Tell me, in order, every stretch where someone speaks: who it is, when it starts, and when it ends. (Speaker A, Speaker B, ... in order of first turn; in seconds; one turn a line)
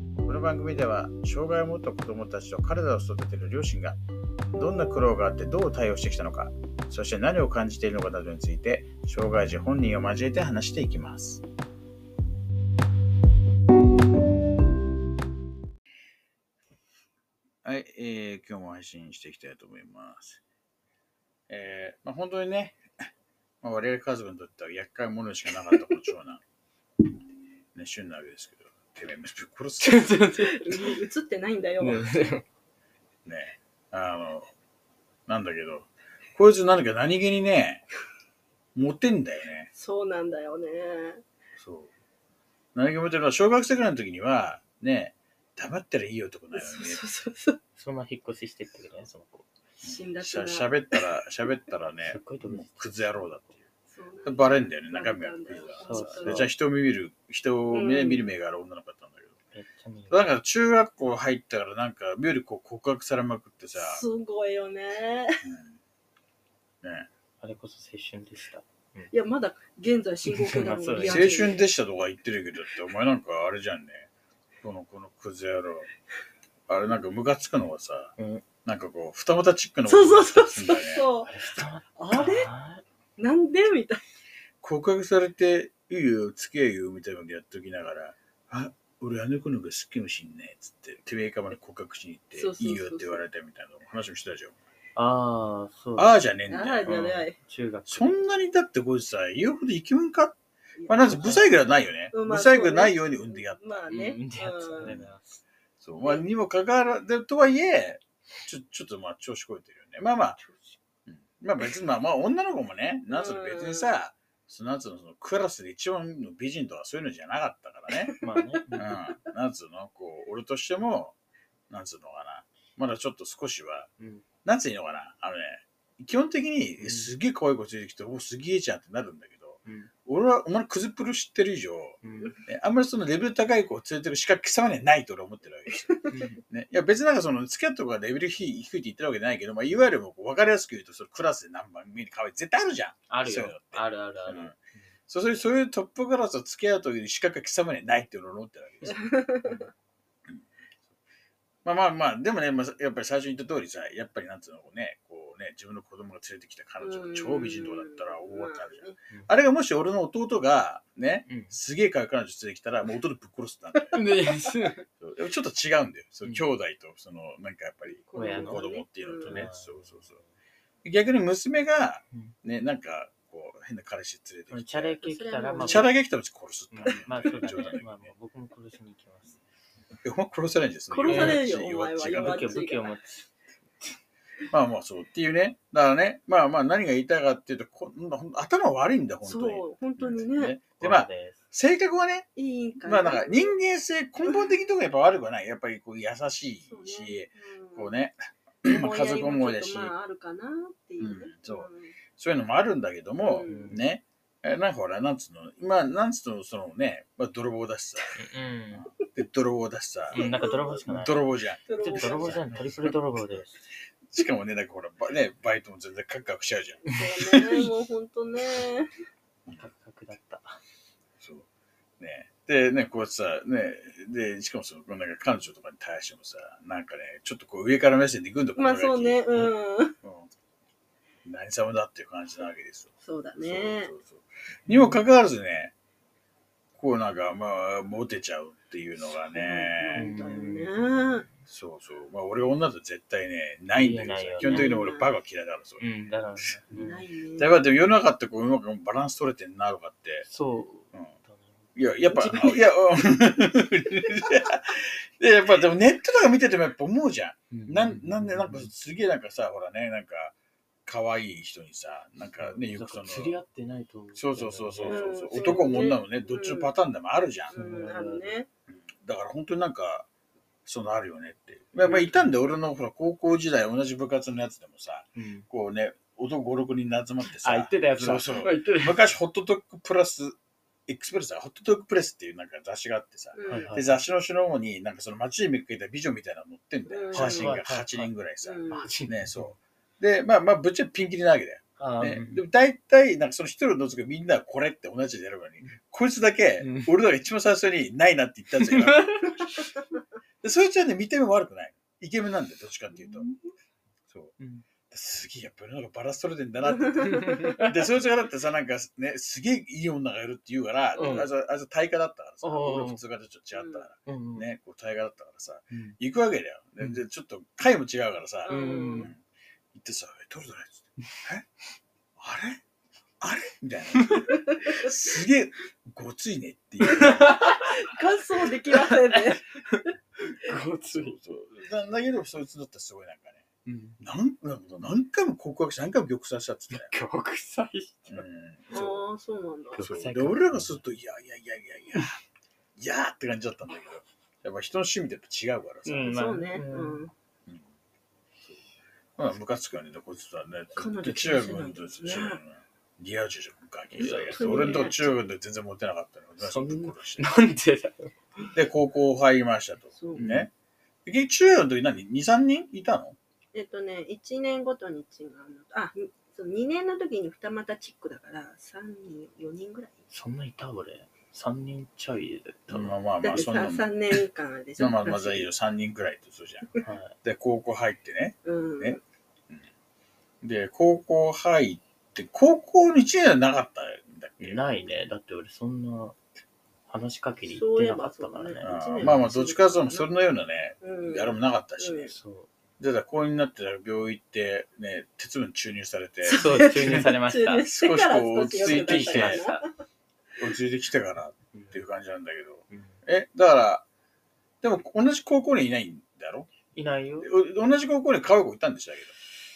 Speaker A: 0.2-4.0
Speaker A: 4.5-11.4
Speaker A: 17.6-20.4
Speaker A: 21.5-22.8
Speaker A: 23.6-26.4
Speaker A: 27.7-30.2
Speaker B: 29.8-30.9
Speaker C: 30.4-32.0
Speaker B: 31.8-32.4
Speaker A: 33.2-34.5
Speaker A: 35.3-37.8
Speaker A: 38.7-39.7
Speaker C: 39.7-41.2
Speaker A: 41.5-41.9
Speaker A: 42.7-47.0
Speaker C: 46.5-47.6
Speaker B: 47.7-49.5
Speaker C: 49.8-51.0
Speaker A: 49.8-53.7
Speaker B: 52.0-53.5
Speaker C: 53.9-56.4
Speaker A: 54.2-59.4
Speaker B: 55.8-56.5
Speaker C: 57.7-58.2
Speaker B: 59.5-60.4
Speaker A: 60.1-64.0
Speaker C: 63.8-65.3
Speaker A: 65.4-65.8
Speaker A: 66.8-67.1
Speaker B: 67.4-69.1
Speaker C: 69.1-71.6
Speaker B: 70.2-71.4
Speaker A: 71.0-74.1
Speaker A: 74.6-75.9
Speaker A: 76.7-81.0
Speaker B: 78.2-78.4
Speaker C: 79.8-81.3
Speaker B: 81.2-82.8
Speaker C: 82.0-82.5
Speaker C: 83.2-84.0
Speaker A: 84.6-94.6
Speaker C: 92.3-93.2
Speaker B: 95.0-96.3
Speaker A: 96.0-96.9
Speaker C: 96.5-97.4
Speaker B: 96.8-98.2
Speaker A: 97.9-104.0
Speaker C: 100.8-101.6
Speaker C: 102.1-105.0
Speaker B: 103.9-105.4
Speaker A: 104.8-105.1
Speaker A: 105.8-110.4
Speaker B: 110.4-110.8
Speaker A: 111.1-118.1
Speaker C: 113.1-114.0
Speaker C: 117.9-118.6
Speaker B: 118.2-119.0
Speaker A: 118.8-121.2
Speaker A: 121.7-123.9
Speaker B: 124.0-124.2
Speaker A: 124.4-144.6
Speaker B: 126.8-127.1
Speaker B: 129.6-129.9
Speaker B: 132.0-132.4
Speaker C: 135.9-136.1
Speaker B: 136.1-136.4
Speaker B: 143.1-144.9
Speaker A: 145.1-149.5
Speaker C: 148.8-149.6
Speaker A: 151.6-163.9
Speaker C: 156.8-159.0
Speaker B: 161.3-161.5
Speaker B: 163.9-164.8
Speaker A: 165.0-170.2
Speaker B: 166.2-166.5
Speaker C: 168.1-169.4
Speaker B: 168.1-168.6
Speaker B: 169.2-170.3
Speaker A: 170.8-175.0
Speaker B: 174.5-175.9
Speaker C: 175.0-175.9
Speaker A: 175.6-178.1
Speaker B: 176.7-179.4
Speaker C: 176.9-177.6
Speaker A: 180.0-182.5
Speaker C: 180.9-182.9
Speaker B: 181.1-181.4
Speaker B: 182.1-183.9
Speaker A: 184.5-199.9
Speaker C: 189.2-190.6
Speaker B: 190.8-191.4
Speaker C: 192.3-193.5
Speaker C: 194.2-194.5
Speaker C: 196.7-197.9
Speaker C: 198.6-201.9
Speaker A: 201.0-208.2
Speaker C: 203.2-203.7
Speaker B: 203.4-203.9
Speaker B: 208.2-208.9
Speaker A: 208.7-210.3
Speaker C: 210.1-210.8
Speaker B: 210.1-211.2
Speaker A: 210.9-212.9
Speaker C: 211.7-212.4
Speaker B: 211.8-213.6
Speaker A: 214.1-217.7
Speaker B: 216.8-217.1
Speaker C: 216.9-218.9
Speaker B: 219.5-220.6
Speaker A: 221.2-221.5
Speaker A: 222.0-229.4
Speaker C: 228.6-229.9
Speaker A: 230.0-230.3
Speaker A: 231.2-235.7
Speaker C: 233.0-233.9
Speaker B: 234.7-235.0
Speaker A: 236.8-240.1
Speaker C: 239.3-241.3
Speaker B: 239.9-241.3
Speaker A: 241.5-245.8
Speaker B: 243.7-244.7
Speaker C: 244.4-245.2
Speaker B: 245.8-247.0
Speaker C: 246.8-247.6
Speaker A: 247.4-250.4
Speaker B: 250.2-252.7
Speaker A: 251.8-263.4
Speaker B: 257.5-258.7
Speaker B: 262.4-265.7
Speaker A: 264.1-267.5
Speaker C: 264.8-266.7
Speaker B: 267.5-268.4
Speaker C: 267.5-268.5
Speaker A: 268.7-270.1
Speaker A: 270.6-299.6
Speaker B: 271.8-272.3
Speaker B: 275.1-275.4
Speaker B: 277.2-279.1
Speaker C: 283.3-283.7
Speaker B: 283.5-284.0
Speaker C: 286.9-287.6
Speaker B: 287.1-288.1
Speaker C: 288.4-288.9
Speaker B: 288.7-289.6
Speaker B: 291.8-292.4
Speaker B: 296.6-296.9
Speaker B: 298.5-299.8
Speaker A: 300.4-303.3
Speaker B: 302.9-303.2
Speaker A: 304.1-304.4
Speaker B: 304.4-304.6
Speaker A: 304.9-319.2
Speaker C: 306.6-307.5
Speaker B: 307.1-307.7
Speaker C: 310.9-311.2
Speaker B: 310.9-311.3
Speaker B: 312.4-313.0
Speaker C: 313.5-313.9
Speaker B: 314.1-314.5
Speaker B: 315.7-316.0
Speaker B: 316.8-317.0
Speaker C: 318.4-319.1
Speaker B: 318.5-319.1
Speaker A: 319.7-321.4
Speaker A: 322.2-322.6
Speaker A: 323.2-327.4
Speaker B: 326.8-327.6
Speaker C: 326.9-329.4
Speaker B: 328.7-331.2
Speaker A: 330.9-333.4
Speaker B: 333.6-334.0
Speaker A: 334.0-336.9
Speaker B: 336.7-338.2
Speaker A: 338.1-339.1
Speaker C: 338.7-339.8
Speaker B: 339.7-340.8
Speaker A: 339.8-342.1
Speaker A: 342.8-346.1
Speaker B: 345.8-347.0
Speaker C: 346.0-347.1
Speaker A: 349.2-357.3
Speaker C: 350.8-352.4
Speaker B: 353.9-355.1
Speaker C: 354.3-355.0
Speaker B: 356.4-358.1
Speaker A: 358.5-360.5
Speaker C: 359.9-360.4
Speaker B: 360.1-360.5
Speaker A: 361.1-363.1
Speaker C: 363.5-370.0
Speaker B: 370.1-372.9
Speaker A: 372.7-373.9
Speaker C: 373.2-375.5
Speaker A: 374.8-376.7
Speaker B: 376.8-377.1
Speaker A: 377.2-379.6
Speaker C: 378.4-379.0
Speaker A: 380.4-384.6
Speaker B: 384.4-386.2
Speaker B: 386.9-389.2
Speaker C: 387.4-390.1
Speaker A: 388.6-392.1
Speaker C: 390.8-392.1
Speaker B: 392.1-392.5
Speaker A: 392.8-397.1
Speaker C: 396.2-399.6
Speaker B: 396.2-397.6
Speaker A: 397.7-399.5
Speaker B: 398.6-399.6
Speaker A: 400.4-403.9
Speaker B: 401.5-401.9
Speaker B: 402.7-403.0
Speaker A: 404.6-406.5
Speaker B: 406.7-407.3
Speaker A: 407.2-409.1